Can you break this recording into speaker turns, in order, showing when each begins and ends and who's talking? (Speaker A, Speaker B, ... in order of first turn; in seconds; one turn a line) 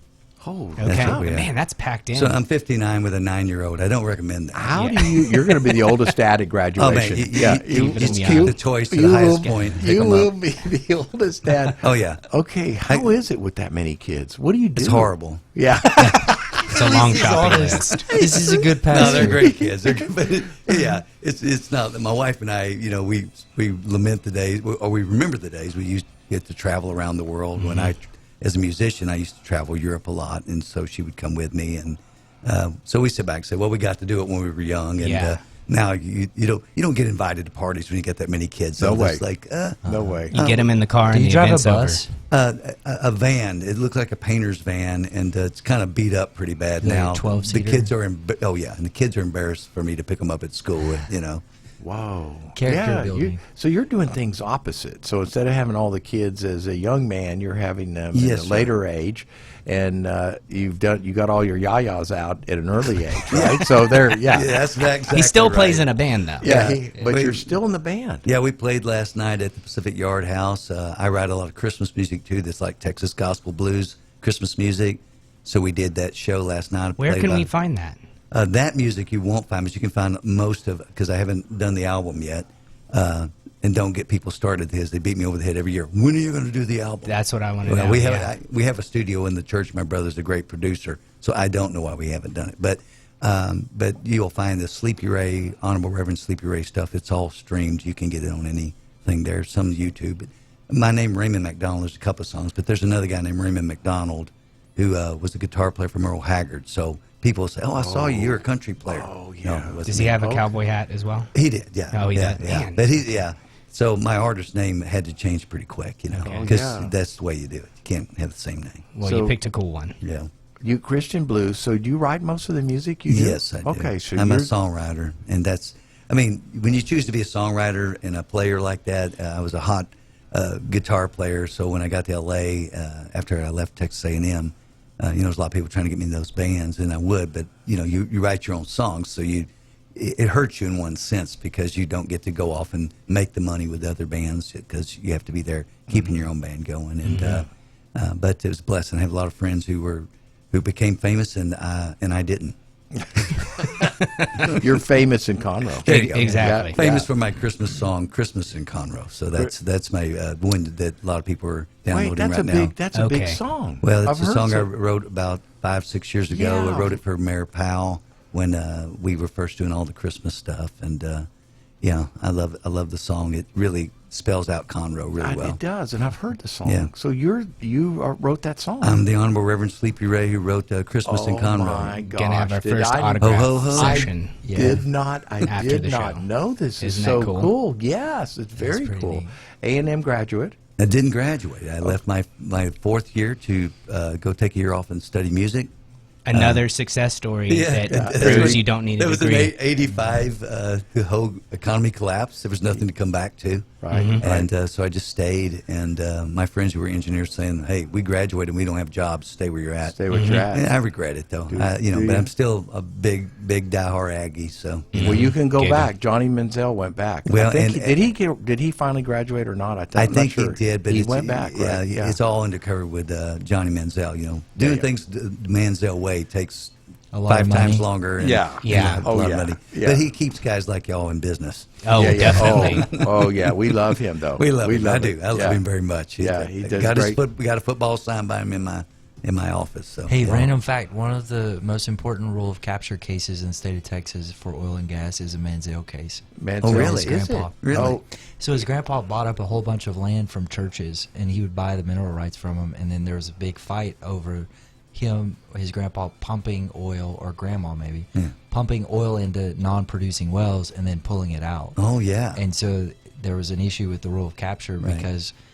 Speaker A: 0.4-1.3
Speaker B: 0.8-2.4
Speaker C: 0.8-1.6
Speaker C: 2.1-4.8
Speaker A: 4.5-17.4
Speaker B: 4.8-5.5
Speaker C: 6.8-10.3
Speaker B: 7.4-8.6
Speaker B: 9.2-10.2
Speaker C: 11.8-12.2
Speaker C: 12.9-13.1
Speaker C: 14.8-16.4
Speaker B: 16.7-18.2
Speaker D: 16.8-19.5
Speaker A: 18.1-20.1
Speaker C: 18.9-39.8
Speaker B: 27.6-27.9
Speaker B: 35.0-35.4
Speaker A: 38.8-39.2
Speaker D: 39.8-40.2
Speaker A: 39.9-40.4
Speaker B: 40.3-42.0
Speaker C: 40.3-40.7
Speaker D: 41.1-42.1
Speaker C: 42.3-51.4
Speaker D: 46.8-47.9
Speaker A: 51.8-64.7
Speaker D: 52.6-53.4
Speaker C: 58.1-58.7
Speaker C: 63.3-67.5
Speaker B: 65.1-66.5
Speaker A: 66.4-68.3
Speaker C: 68.2-77.5
Speaker B: 77.0-78.0
Speaker C: 78.3-110.2
Speaker B: 87.0-88.3
Speaker A: 107.8-110.5
Speaker B: 109.9-111.3
Speaker C: 111.3-118.9
Speaker B: 111.9-112.9
Speaker A: 116.2-116.9
Speaker B: 116.2-116.5
Speaker B: 118.9-120.0
Speaker A: 119.0-119.3
Speaker C: 120.0-120.3
Speaker A: 120.6-124.5
Speaker C: 123.1-152.6
Speaker B: 147.1-147.4
Speaker C: 153.1-153.8
Speaker B: 154.0-154.6
Speaker A: 154.5-157.1
Speaker B: 155.8-156.8
Speaker C: 155.8-162.8
Speaker A: 161.9-164.7
Speaker B: 162.9-163.4
Speaker C: 163.8-171.3
Speaker A: 166.3-167.0
Speaker C: 171.8-175.6
Speaker A: 175.2-179.0
Speaker C: 176.7-176.9
Speaker C: 178.8-182.0
Speaker A: 181.1-190.6
Speaker B: 182.1-184.4
Speaker C: 183.2-184.0
Speaker D: 183.8-184.8
Speaker B: 185.4-186.3
Speaker B: 186.8-187.5
Speaker D: 188.6-189.3
Speaker C: 190.8-195.7
Speaker B: 196.3-199.6
Speaker C: 196.3-196.6
Speaker C: 197.5-215.3
Speaker A: 197.9-198.6
Speaker A: 203.8-204.5
Speaker B: 203.9-204.2
Speaker A: 209.8-210.8
Speaker B: 210.1-210.5
Speaker A: 211.5-212.3
Speaker B: 214.9-215.9
Speaker A: 215.0-222.2
Speaker C: 217.3-218.0
Speaker C: 219.9-226.7
Speaker A: 224.6-224.9
Speaker D: 227.1-227.9
Speaker C: 227.3-240.6
Speaker A: 228.2-230.1
Speaker B: 228.6-229.1
Speaker B: 231.8-232.9
Speaker A: 231.9-235.6
Speaker A: 236.2-237.2
Speaker D: 240.1-261.8
Speaker A: 246.4-248.0
Speaker C: 246.6-247.9
Speaker C: 261.8-262.4
Speaker D: 262.3-265.3
Speaker C: 264.8-265.1